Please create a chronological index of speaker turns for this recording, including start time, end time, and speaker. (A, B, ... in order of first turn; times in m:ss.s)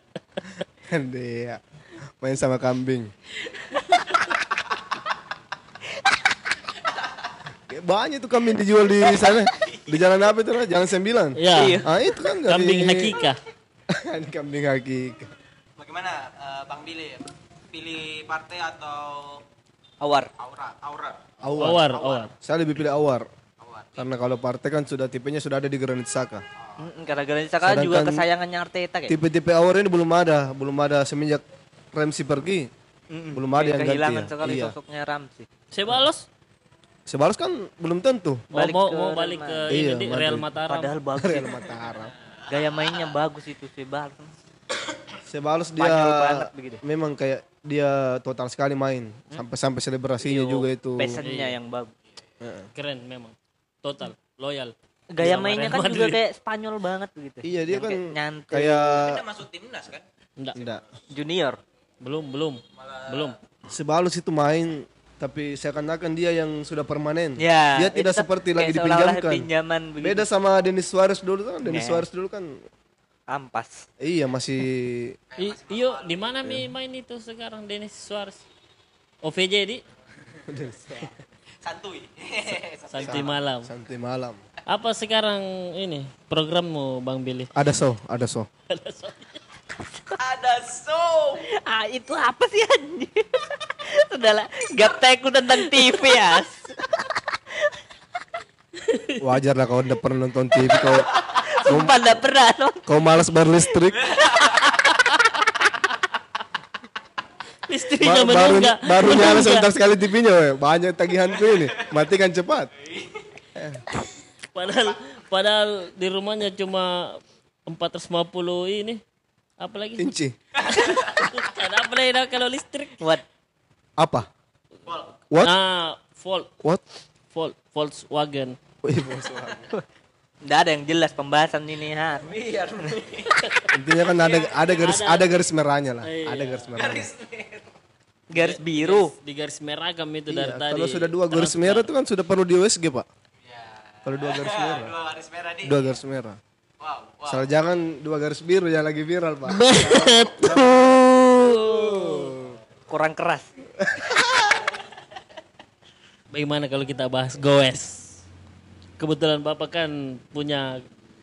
0:00.9-0:01.6 A
0:02.2-0:03.1 A
0:03.5-0:04.5 B
0:06.9-0:07.3 B
0:07.7-0:13.2 A
0:09.1-0:10.1 B
0:11.4-0:11.8 C
0:11.5-0:11.8 D
0:12.4-0:13.4 C
0:13.9-0:15.3 A
0:15.8-0:19.4 B
0:20.0-0:20.3 D
0:20.4-0:21.3 B
0:21.4-0:21.8 A
0:21.6-0:22.3 C
0:21.9-0:22.3 B
0:22.4-0:23.3 A
0:23.6-0:24.2 B
0:24.0-0:26.4 A
0:26.6-0:26.9 B
0:26.8-0:29.2 D
0:27.6-0:28.2 A
0:29.1-0:31.4 A
0:31.9-0:32.7 A
0:33.1-0:35.5 D
0:33.3-0:34.7 A
0:35.7-0:36.3 C
0:37.0-0:38.4 A
0:38.5-0:39.8 D
0:38.5-0:40.9 C
0:39.7-0:40.5 A
0:40.7-0:41.6 D
0:41.2-0:42.1 A
0:42.4-0:43.2 B
0:42.5-0:44.3 D
0:45.3-0:51.2 A
0:45.8-0:46.8 D
0:50.2-0:51.9 D
0:51.2-0:51.6 C
0:52.4-0:52.7 A
0:52.7-0:56.2 C
0:55.1-0:59.0 D
0:57.4-0:59.2 A
0:59.0-1:00.0 B
1:00.5-1:00.8 A
1:01.1-1:01.6 D
1:02.0-1:03.4 C
1:02.8-1:03.4 B
1:03.7-1:09.5 A
1:07.4-1:10.2 D
1:10.0-1:12.6 A
1:11.6-1:12.0 D
1:13.3-1:13.8 D
1:14.0-1:15.1 A
1:15.3-1:16.4 B
1:15.4-1:18.4 C
1:19.2-1:19.8 C
1:20.5-1:21.2 A
1:21.6-1:23.3 B
1:22.9-1:23.7 C
1:23.0-1:24.4 A
1:24.7-1:27.5 C
1:27.5-1:28.5 A
1:28.7-1:29.4 C
1:30.1-1:31.5 B
1:31.6-1:36.6 D
1:38.8-1:39.2 C
1:39.2-1:41.1 A
1:40.7-1:42.8 D
1:41.6-1:42.2 A
1:42.8-1:44.0 A
1:43.9-1:44.8 B
1:47.7-1:49.7 C
1:48.0-1:52.7 A
1:51.3-1:51.9 B
1:52.8-1:53.4 B
1:53.6-1:53.8 A
1:54.5-1:59.0 C
1:59.6-2:00.1 C
2:00.0-2:00.3 A
2:00.6-2:01.3 B
2:00.7-2:03.0 C
2:04.0-2:04.3 A
2:04.8-2:05.1 B
2:05.4-2:06.5 C
2:07.3-2:08.6 C
2:08.8-2:09.7 A
2:09.3-2:09.6 B
2:10.4-2:12.3 D
2:12.2-2:13.5 B
2:13.7-2:17.1 A
2:14.1-2:14.6 B
2:14.6-2:15.3 C
2:16.0-2:16.7 C
2:16.7-2:17.7 B
2:18.3-2:19.1 D
2:18.3-2:21.9 C
2:20.3-2:23.1 A
2:23.4-2:25.9 B
2:24.0-2:24.9 A
2:25.6-2:26.4 A
2:26.8-2:27.5 B
2:27.3-2:32.6 A
2:29.5-2:32.3 C
2:32.9-2:33.5 D
2:33.8-2:34.6 A
2:36.3-2:38.2 C
2:39.0-2:40.8 C